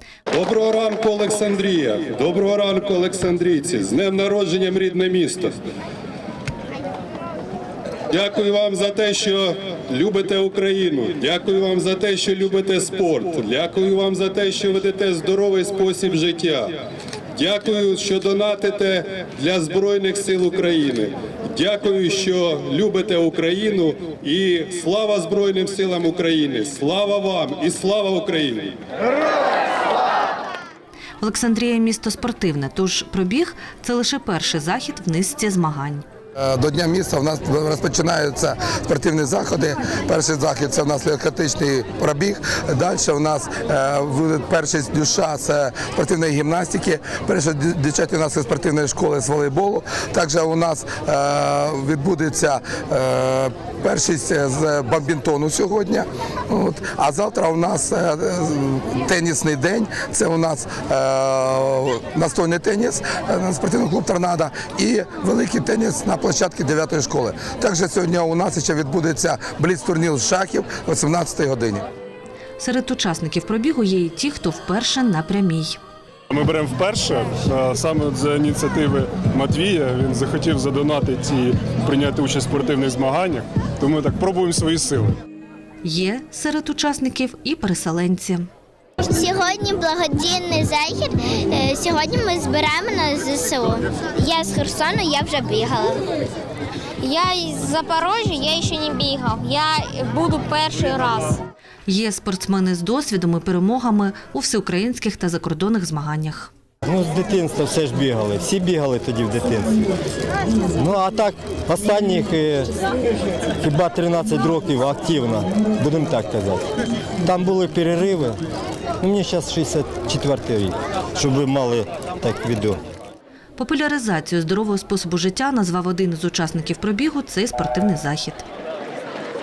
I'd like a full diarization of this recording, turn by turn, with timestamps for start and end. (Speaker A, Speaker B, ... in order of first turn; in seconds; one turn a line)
Speaker A: 0.3-5.5
Speaker A: 8.1-16.7
Speaker A: 17.4-28.7
Speaker B: 31.2-36.0
Speaker C: 36.4-71.9
Speaker B: 72.6-75.8
Speaker D: 76.6-81.5
Speaker D: 82.1-83.4
Speaker B: 85.8-88.5
Speaker E: 89.0-96.0
Speaker F: 97.0-101.4
Speaker E: 98.2-99.2
Speaker B: 101.9-106.5
Speaker G: 106.8-109.8
Speaker G: 110.8-112.7
Speaker G: 113.6-116.7
Speaker G: 117.2-118.4
Speaker G: 119.0-122.8
Speaker B: 123.6-128.4